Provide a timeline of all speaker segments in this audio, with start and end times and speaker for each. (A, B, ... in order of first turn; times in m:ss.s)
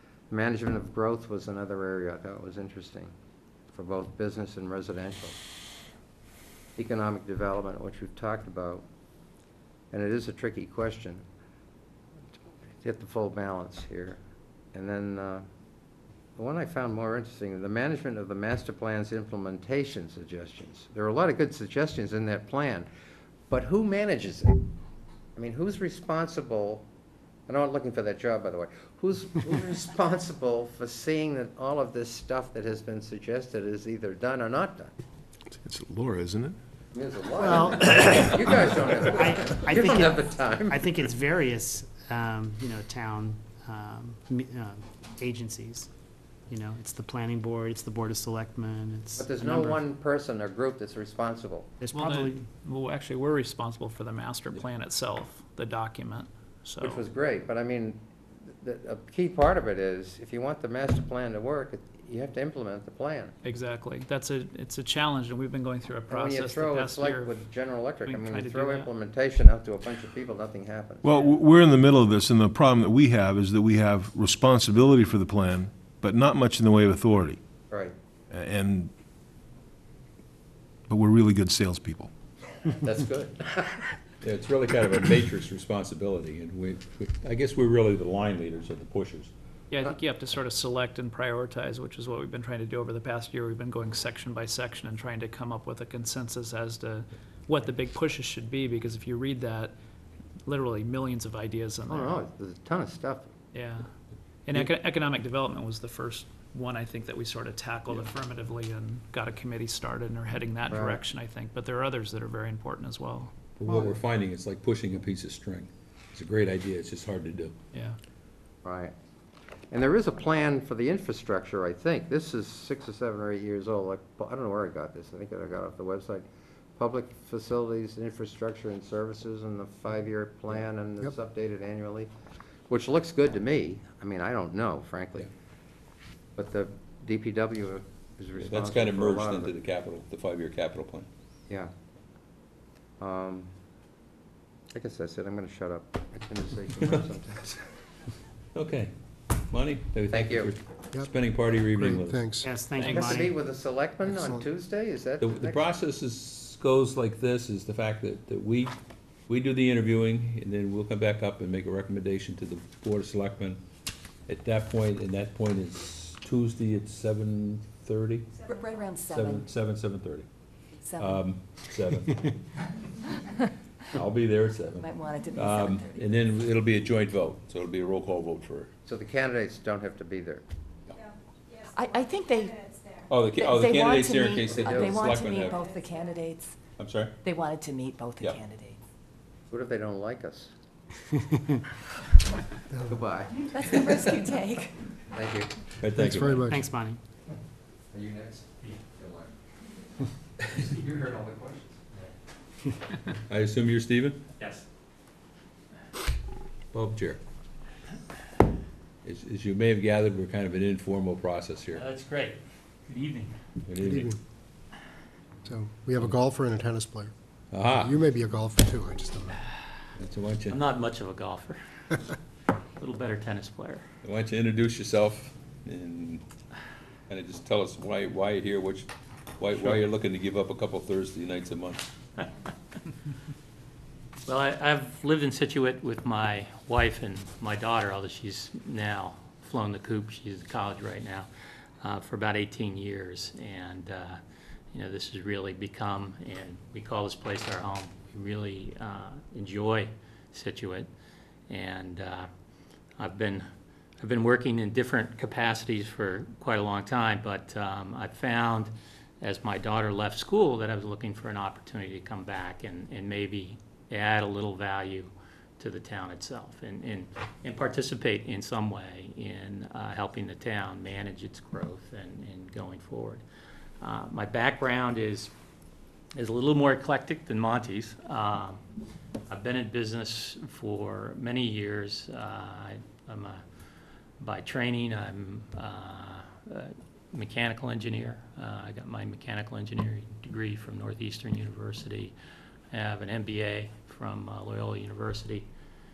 0:00.3-0:03.1 A
0:03.7-0:05.4 A
0:06.8-0:08.8 A
0:09.9-0:11.2 A
0:12.8-0:14.2 A
0:14.7-0:15.4 A
0:16.4-0:22.9 A
0:23.5-0:24.6 A
0:25.4-0:26.9 A
0:27.5-0:34.9 A
0:35.6-0:36.6 B
0:36.9-0:41.0 A
0:37.4-0:38.2 C
0:39.2-0:45.9 C
0:46.5-0:49.8 C
0:49.2-0:51.7 A
0:51.8-0:52.4 C
0:51.9-0:57.0 D
0:56.8-1:03.3 A
1:03.4-1:07.4 D
1:06.1-1:11.0 A
1:08.0-1:08.9 D
1:11.0-1:17.4 B
1:18.3-1:18.9 B
1:20.9-1:22.1 B
1:22.8-1:23.9 A
1:24.2-1:29.3 E
1:29.7-1:39.7 D
1:40.4-1:42.2 D
1:41.9-1:43.3 A
1:43.5-1:43.9 D
1:44.5-1:53.3 D
1:50.7-1:51.0 A
1:53.6-1:57.5 E
1:57.7-1:58.0 D
1:58.6-1:58.9 A
1:59.7-2:12.1 A
2:12.7-2:15.3 A
2:16.4-2:19.5 A
2:18.4-2:21.1 E
2:23.0-2:23.5 A
2:24.7-2:27.6 A
2:28.5-2:32.3 E
2:30.1-2:30.5 A
2:31.8-2:32.5 F
2:32.4-2:33.3 C
2:32.8-2:35.6 A
2:35.2-2:38.7 E
2:39.3-2:43.6 E
2:44.3-2:48.4 E
2:48.4-2:49.4 G
2:49.0-2:50.2 E
2:50.7-2:51.2 G
2:51.0-2:52.3 E
2:53.9-2:58.7 E
2:54.8-2:56.1 G
2:58.8-3:00.4 A
3:01.7-3:02.8 G
3:03.0-3:05.7 E
3:03.4-3:06.6 G
3:04.5-3:04.9 A
3:06.8-3:07.2 E
3:07.2-3:08.8 G
3:08.2-3:08.4 E
3:09.5-3:10.5 A
3:12.9-3:13.8 A
3:13.5-3:14.7 G
3:15.1-3:15.5 A
3:15.8-3:16.6 E
3:15.9-3:16.6 F
3:16.5-3:17.0 C
3:17.9-3:19.3 A
3:20.5-3:21.8 A
3:23.3-3:24.2 E
3:24.4-3:24.6 H
3:26.7-3:27.2 E
3:29.0-3:31.8 E
3:31.7-3:33.3 H
3:33.6-3:34.1 E
3:33.8-3:34.2 F
3:35.4-3:37.1 F
3:37.5-3:38.0 E
3:37.8-3:39.4 F
3:40.0-3:40.6 E
3:40.5-3:42.1 H
3:42.8-3:43.8 H
3:44.0-3:46.2 E
3:47.1-3:51.9 E
3:54.2-4:01.3 H
4:01.8-4:04.2 H
4:04.7-4:10.9 H
4:11.5-4:12.3 H
4:13.0-4:13.4 H
4:14.0-4:33.2 H
4:33.8-4:35.3 H
4:36.2-4:38.6 H
4:39.3-4:43.4 H
4:44.2-4:52.1 H
4:52.7-4:55.5 H